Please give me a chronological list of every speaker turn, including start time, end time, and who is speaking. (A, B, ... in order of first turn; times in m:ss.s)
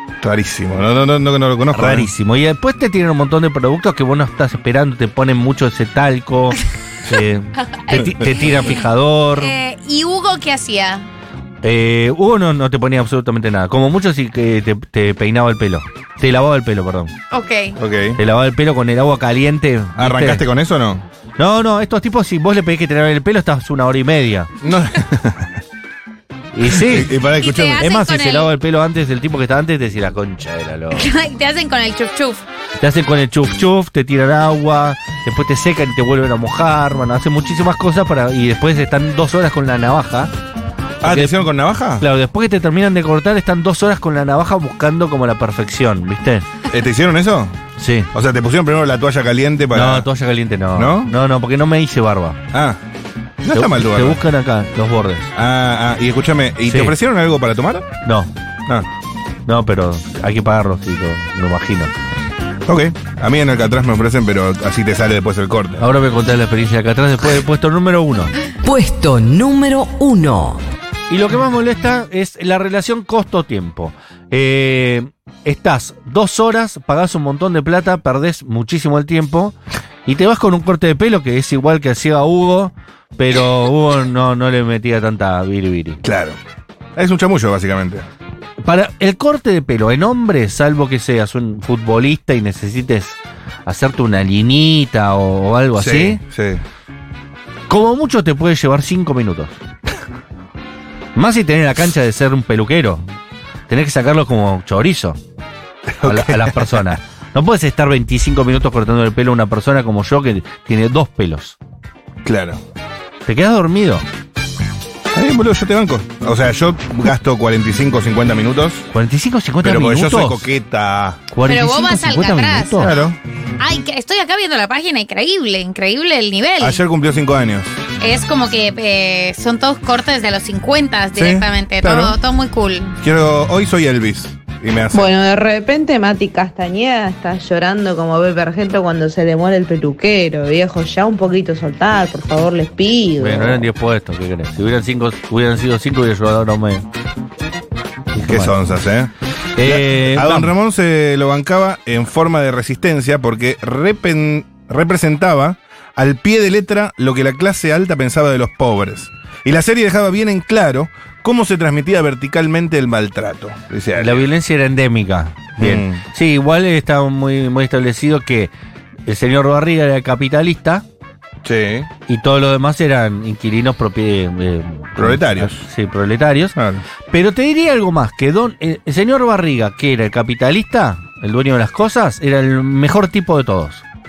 0:00.2-0:02.1 A
0:01.7-0:09.5 B
0:07.7-0:08.7 C
0:09.3-0:11.1 C
0:11.6-0:17.1 B
0:17.3-0:17.8 C
0:17.8-0:18.2 A
0:18.2-0:20.4 B
0:20.0-0:21.0 A
0:21.4-0:24.5 B
0:24.6-0:25.6 A
0:26.5-0:27.2 B
0:26.6-0:27.8 A
0:27.2-0:28.5 C
0:27.8-0:31.1 B
0:30.9-0:32.4 C
0:32.8-0:40.3 B
0:41.0-0:42.0 A
0:41.0-0:41.5 B
0:42.0-0:46.5 B
0:46.7-0:47.6 A
0:47.8-0:48.1 B
0:48.1-0:50.1 A
0:49.7-0:52.4 B
0:50.7-0:51.1 A
0:52.5-0:52.8 A
0:53.4-0:54.2 A
0:53.5-0:55.3 B
0:55.3-0:57.9 A
0:56.7-0:56.9 B
0:58.0-0:58.3 B
0:59.4-1:01.9 B
1:02.7-1:05.9 A
1:05.8-1:08.3 B
1:08.6-1:10.6 D
1:11.1-1:26.0 B
1:26.0-1:26.4 A
1:26.9-1:28.1 A
1:28.6-1:36.2 B
1:35.8-1:36.6 A
1:37.7-1:39.6 B
1:41.1-1:43.0 B
1:43.7-1:45.2 B
1:45.9-1:47.0 A
1:46.0-1:51.6 B
1:52.2-1:52.6 A
1:53.2-1:54.0 B
1:55.1-1:58.9 A
1:58.9-2:00.5 B
1:59.6-2:01.2 A
2:01.3-2:02.9 B
2:01.4-2:03.1 C
2:02.8-2:03.2 A
2:03.6-2:06.8 C
2:06.6-2:07.7 A
2:08.0-2:13.0 C
2:11.1-2:12.2 A
2:13.0-2:15.1 A
2:14.9-2:23.6 E
2:23.2-2:26.8 B
2:28.1-2:28.5 B
2:28.2-2:44.3 A
2:29.6-2:30.5 B
2:44.0-2:48.5 B
2:45.6-2:46.0 A
2:49.1-2:50.8 B
2:51.4-2:51.9 A
2:52.1-2:56.5 B
2:55.0-2:55.6 A
2:56.5-2:56.8 A
2:57.1-3:03.8 B